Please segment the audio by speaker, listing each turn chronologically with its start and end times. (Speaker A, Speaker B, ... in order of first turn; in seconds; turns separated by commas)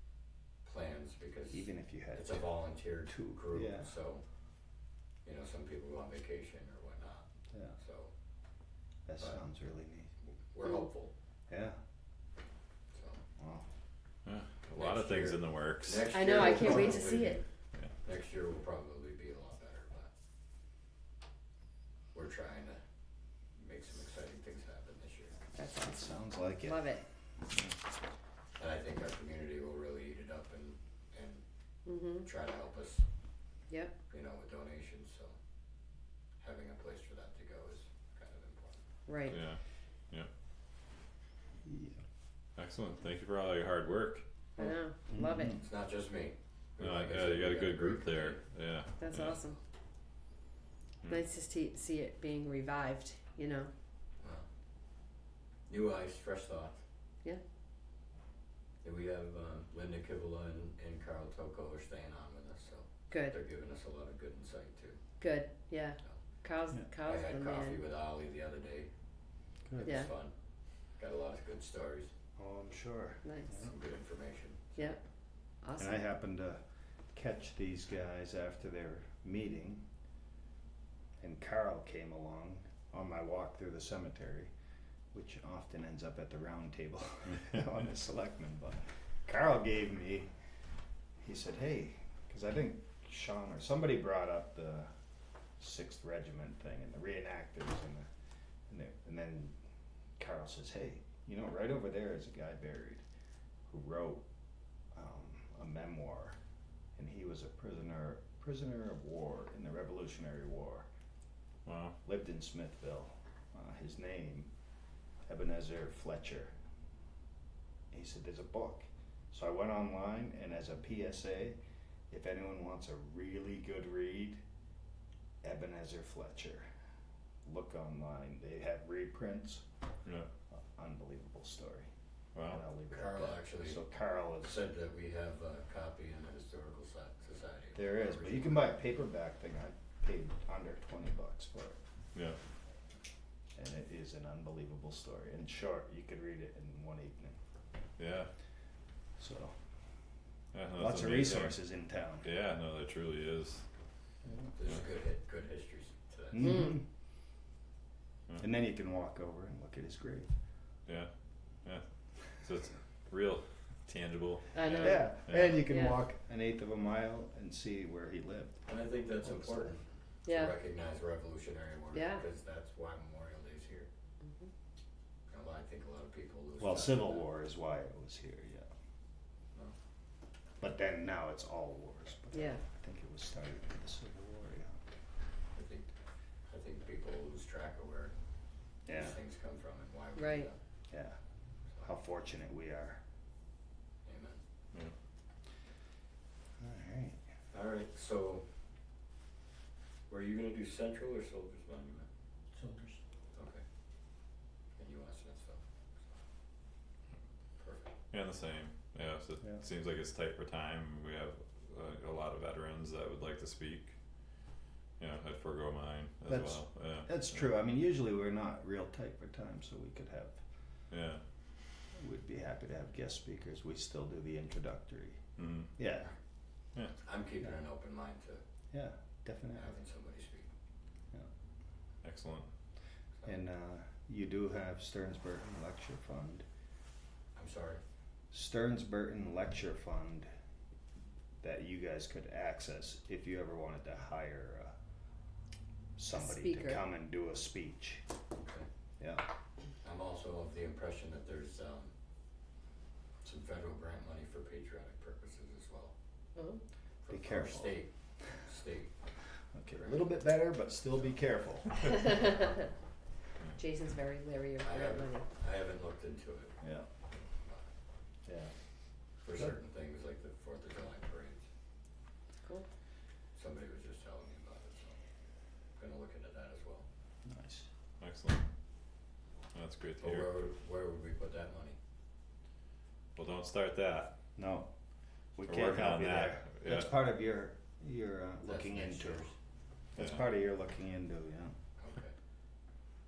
Speaker A: 0.6-4.2, Speaker B: 1.5-2.4, Speaker B: 3.1-3.9, Speaker A: 5.2-7.3, Speaker B: 7.5-7.8, Speaker A: 7.8-8.1, Speaker B: 9.1-10.1, Speaker A: 10.5-11.1, Speaker B: 11.5-11.8, Speaker A: 12.9-13.2, Speaker B: 13.4-13.6, Speaker C: 14.2-16.3, Speaker A: 14.7-17.4, Speaker D: 16.1-17.4, Speaker A: 18.0-20.1, Speaker A: 22.1-22.8, Speaker A: 23.6-25.3, Speaker D: 25.6-26.0, Speaker B: 25.8-26.8, Speaker D: 26.6-27.0, Speaker A: 28.6-31.4, Speaker D: 31.9-32.2, Speaker A: 32.2-33.0, Speaker D: 33.7-33.9, Speaker A: 34.1-35.3, Speaker A: 36.4-38.8, Speaker D: 39.1-39.4, Speaker C: 39.3-39.6, Speaker B: 41.6-42.0, Speaker C: 42.6-44.2, Speaker D: 44.6-45.6, Speaker B: 45.1-45.6, Speaker A: 45.6-48.4, Speaker C: 46.8-49.4, Speaker D: 49.0-49.6, Speaker D: 51.0-53.7, Speaker A: 55.7-56.8, Speaker A: 58.8-65.0, Speaker D: 63.1-63.4, Speaker D: 65.2-67.8, Speaker A: 67.0-68.9, Speaker B: 69.7-70.0, Speaker A: 69.8-70.3, Speaker D: 69.8-70.1, Speaker A: 71.0-72.1, Speaker B: 72.4-73.7, Speaker A: 73.6-75.0, Speaker D: 75.6-76.0, Speaker B: 75.8-76.6, Speaker B: 77.1-79.8, Speaker B: 81.2-84.5, Speaker B: 85.1-90.3, Speaker B: 91.2-94.9, Speaker B: 95.6-98.1, Speaker B: 98.7-99.6, Speaker B: 100.2-103.0, Speaker B: 103.7-104.2, Speaker B: 104.9-106.3, Speaker B: 107.0-110.8, Speaker C: 111.6-112.0, Speaker B: 112.0-114.5, Speaker B: 115.3-116.5, Speaker B: 117.9-121.6, Speaker B: 122.1-124.4, Speaker B: 125.4-126.7, Speaker B: 127.4-129.6, Speaker B: 130.5-131.9, Speaker C: 132.3-132.6, Speaker B: 132.4-134.6, Speaker A: 132.9-133.8, Speaker A: 134.4-138.7, Speaker B: 137.7-141.8, Speaker B: 143.6-147.4, Speaker C: 148.0-148.3, Speaker B: 149.2-149.5, Speaker C: 150.5-151.6, Speaker B: 150.8-152.3, Speaker C: 152.2-153.6, Speaker B: 154.2-154.5, Speaker A: 154.6-156.7, Speaker B: 156.3-156.8, Speaker D: 156.4-156.8, Speaker B: 158.4-160.3, Speaker C: 161.6-165.6, Speaker D: 164.5-165.1, Speaker B: 164.8-168.7, Speaker D: 165.7-166.0, Speaker A: 168.7-173.9, Speaker B: 169.2-169.7, Speaker D: 170.2-170.5, Speaker D: 171.9-172.2, Speaker D: 174.2-174.5, Speaker A: 175.3-177.2, Speaker B: 176.6-178.7, Speaker B: 180.6-184.8, Speaker D: 182.3-182.6, Speaker A: 185.5-185.9, Speaker A: 186.5-188.1, Speaker B: 188.8-189.2, Speaker A: 188.9-190.6, Speaker D: 190.2-190.5, Speaker B: 190.9-191.2, Speaker B: 191.8-193.0, Speaker A: 194.0-194.4, Speaker B: 196.6-197.2, Speaker A: 197.5-198.4, Speaker A: 200.1-202.1, Speaker B: 202.5-203.0, Speaker A: 203.3-203.6, Speaker A: 204.8-206.2, Speaker A: 207.6-207.9, Speaker C: 208.1-213.9, Speaker C: 215.0-217.5, Speaker B: 216.3-220.4, Speaker C: 220.9-221.2, Speaker B: 221.9-225.2, Speaker C: 225.4-225.7, Speaker B: 225.8-226.1, Speaker A: 227.0-228.4, Speaker B: 228.7-229.7, Speaker A: 229.5-230.5, Speaker C: 232.0-232.5, Speaker B: 233.2-236.4, Speaker A: 237.3-237.8, Speaker B: 238.3-240.3, Speaker B: 241.4-244.7, Speaker B: 246.0-248.0, Speaker D: 246.1-246.8, Speaker B: 249.0-249.3, Speaker A: 249.8-251.9, Speaker A: 253.2-255.9, Speaker D: 256.4-256.6, Speaker A: 257.0-258.9, Speaker B: 257.1-257.8, Speaker B: 259.5-262.3, Speaker A: 259.7-260.1, Speaker D: 261.8-262.6, Speaker D: 263.6-265.2, Speaker A: 264.6-266.6, Speaker B: 266.6-266.9, Speaker B: 268.2-268.5, Speaker A: 269.2-271.4, Speaker A: 273.4-275.0, Speaker A: 275.8-276.8, Speaker B: 277.2-277.7, Speaker C: 278.0-278.4, Speaker C: 279.5-280.3, Speaker A: 280.0-281.8, Speaker C: 283.1-284.1, Speaker B: 284.4-284.7, Speaker B: 285.4-289.3, Speaker C: 285.4-286.9, Speaker A: 288.4-289.3, Speaker B: 289.9-291.5, Speaker C: 290.0-290.2, Speaker A: 291.8-292.1